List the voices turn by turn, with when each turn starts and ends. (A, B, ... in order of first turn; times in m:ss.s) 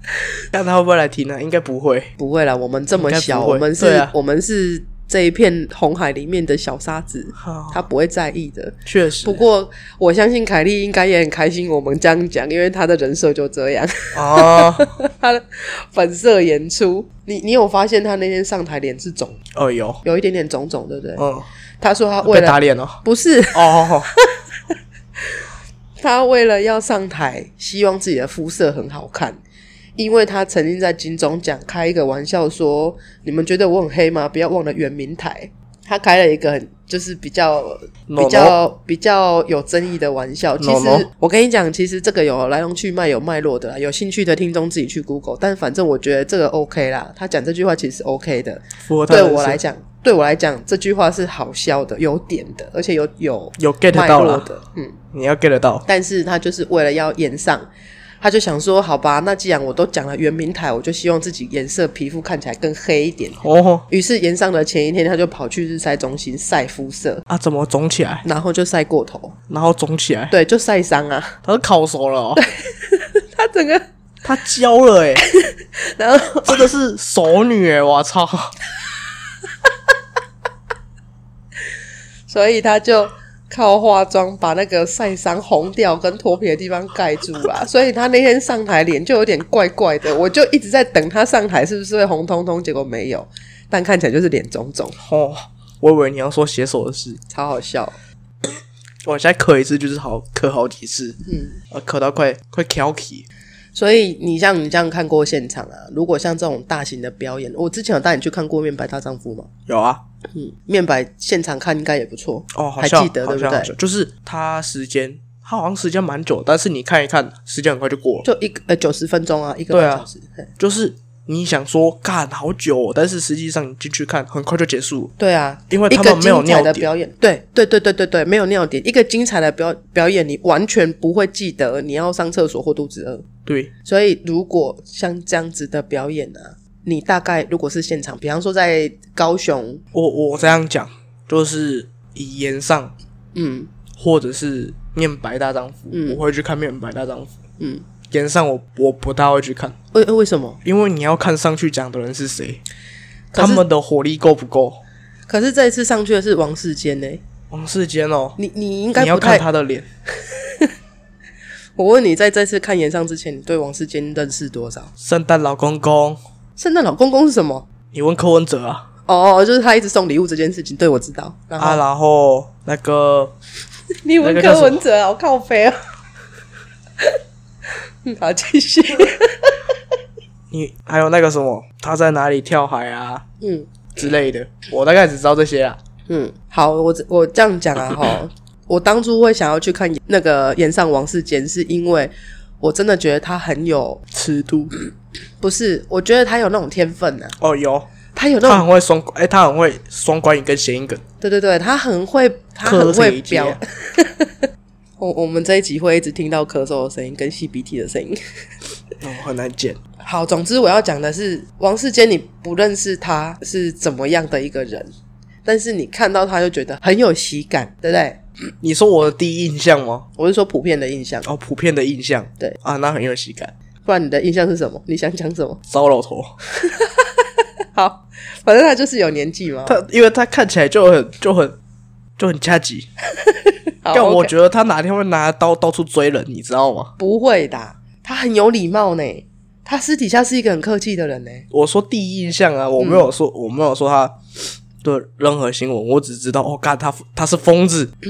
0:00.5-0:02.1 A
0:02.2-0:19.4 B
0:02.9-0:04.1 A
0:07.4-0:07.8 A
0:08.8-0:09.4 A
0:14.1-0:14.9 A
0:19.5-0:20.0 A
0:20.0-0:21.2 B
0:21.2-0:21.5 A
0:21.8-0:24.2 B
0:22.2-0:23.0 A
0:23.5-0:24.1 A
0:26.0-0:29.4 B
0:30.0-0:55.0 B
0:38.1-0:38.6 A
0:40.6-0:41.1 A
0:48.8-0:49.6 A
0:53.6-0:54.5 A
0:55.1-0:55.8 A
0:55.9-0:57.7 B
0:58.2-1:07.2 B
1:03.4-1:03.8 A
1:07.3-1:08.2 A
1:08.2-1:09.4 B
1:09.5-1:10.3 A
1:10.3-1:11.4 B
1:11.4-1:12.4 A
1:12.4-1:13.8 B
1:14.2-1:15.2 A
1:15.2-1:16.7 B
1:16.4-1:18.5 A
1:22.3-1:35.0 B
1:35.0-1:37.2 A
1:37.3-1:38.0 B
1:39.0-1:41.2 A
1:41.2-1:41.6 B
1:41.7-1:43.2 A
1:43.7-1:49.5 B
1:49.7-1:50.0 A
1:50.3-1:53.7 B
1:52.5-1:58.2 A
1:58.2-2:00.5 B
1:59.7-2:00.0 A
2:00.6-2:05.1 A
2:05.2-2:13.2 B
2:05.7-2:06.9 A
2:13.4-2:13.7 A
2:13.8-2:19.8 B
2:19.9-2:22.9 A
2:23.3-2:23.7 B
2:24.0-2:27.4 A
2:25.9-2:26.2 B
2:27.6-2:27.8 B
2:28.1-2:29.7 A
2:29.9-2:30.6 B
2:30.6-2:32.6 A
2:33.3-2:33.6 B
2:33.3-2:34.8 A
2:35.3-2:37.2 B
2:37.5-2:38.4 A
2:38.4-2:39.4 B
2:38.9-2:39.9 A
2:40.3-2:40.7 B
2:41.8-2:44.9 B
2:45.0-2:46.2 A
2:46.6-2:47.6 B
2:47.9-2:48.8 A
2:49.1-2:51.8 B
2:51.6-2:53.3 A
2:54.0-2:55.8 B
2:54.2-2:54.8 A
2:58.0-2:59.7 B
3:00.5-3:03.2 A
3:03.4-3:03.7 B
3:03.9-3:05.8 A
3:06.1-3:14.0 B
3:14.1-3:14.7 A
3:15.4-3:17.4 B
3:17.4-3:17.9 A
3:18.1-3:18.6 B
3:18.4-3:21.0 A
3:21.2-3:24.4 B
3:22.6-3:23.6 A
3:25.0-3:28.2 B
3:29.0-3:29.8 A
3:30.0-3:34.9 B
3:35.4-3:38.2 B
3:38.6-3:40.0 A
3:40.2-3:41.3 B
3:41.2-3:43.5 A
3:43.8-3:45.6 B
3:45.7-3:46.3 A
3:46.6-3:49.8 B
3:49.6-3:51.6 A
3:52.2-3:52.9 A
3:53.2-3:54.3 B
3:53.9-3:56.9 A
3:57.0-4:01.5 B
4:01.5-4:04.2 A
4:02.8-4:03.1 B
4:04.8-4:07.9 A